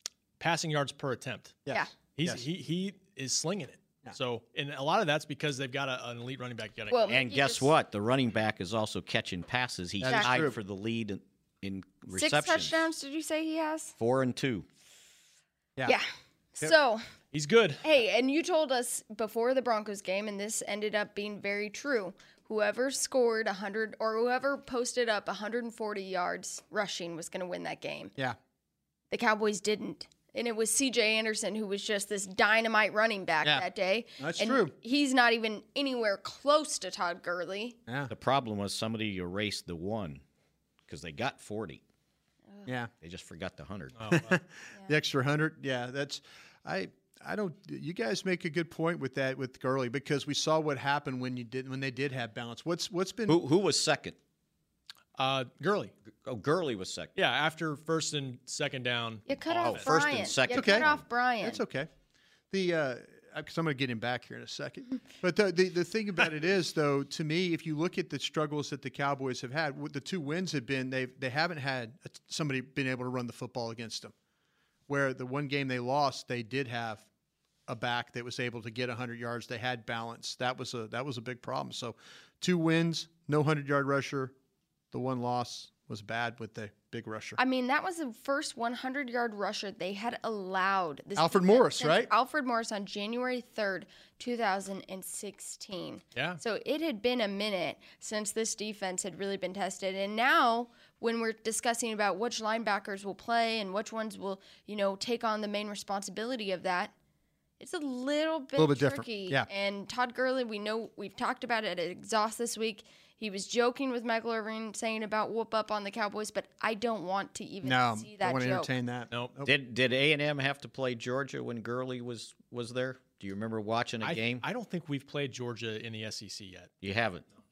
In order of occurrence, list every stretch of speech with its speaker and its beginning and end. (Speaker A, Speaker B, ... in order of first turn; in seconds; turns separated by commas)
Speaker A: 0.4-1.6, Speaker B: 1.7-2.4, Speaker A: 2.1-7.0, Speaker C: 6.9-7.7, Speaker D: 7.1-12.8, Speaker B: 10.0-10.6, Speaker C: 10.0-10.4, Speaker C: 12.1-13.9, Speaker D: 14.0-14.7, Speaker C: 16.6-17.1, Speaker A: 17.3-17.8, Speaker C: 17.8-28.1, Speaker C: 29.1-37.8, Speaker B: 34.2-34.7, Speaker B: 37.9-38.1, Speaker D: 38.1-40.2, Speaker D: 40.9-41.8, Speaker D: 43.0-44.1, Speaker A: 44.0-44.4, Speaker B: 44.1-53.4, Speaker D: 53.3-54.2, Speaker A: 55.2-55.9, Speaker D: 56.2-57.1, Speaker A: 57.2-59.9, Speaker C: 59.3-61.6, Speaker D: 59.6-61.0, Speaker B: 60.5-60.9, Speaker B: 61.4-61.9, Speaker B: 62.5-74.1, Speaker B: 74.9-77.1, Speaker B: 77.7-84.3, Speaker B: 84.9-87.4, Speaker C: 87.4-106.9, Speaker B: 91.2-92.1, Speaker A: 96.2-96.4, Speaker C: 107.6-118.7, Speaker B: 108.6-109.5, Speaker B: 117.6-119.5, Speaker D: 119.4-124.4, Speaker A: 124.0-126.7, Speaker D: 126.8-127.2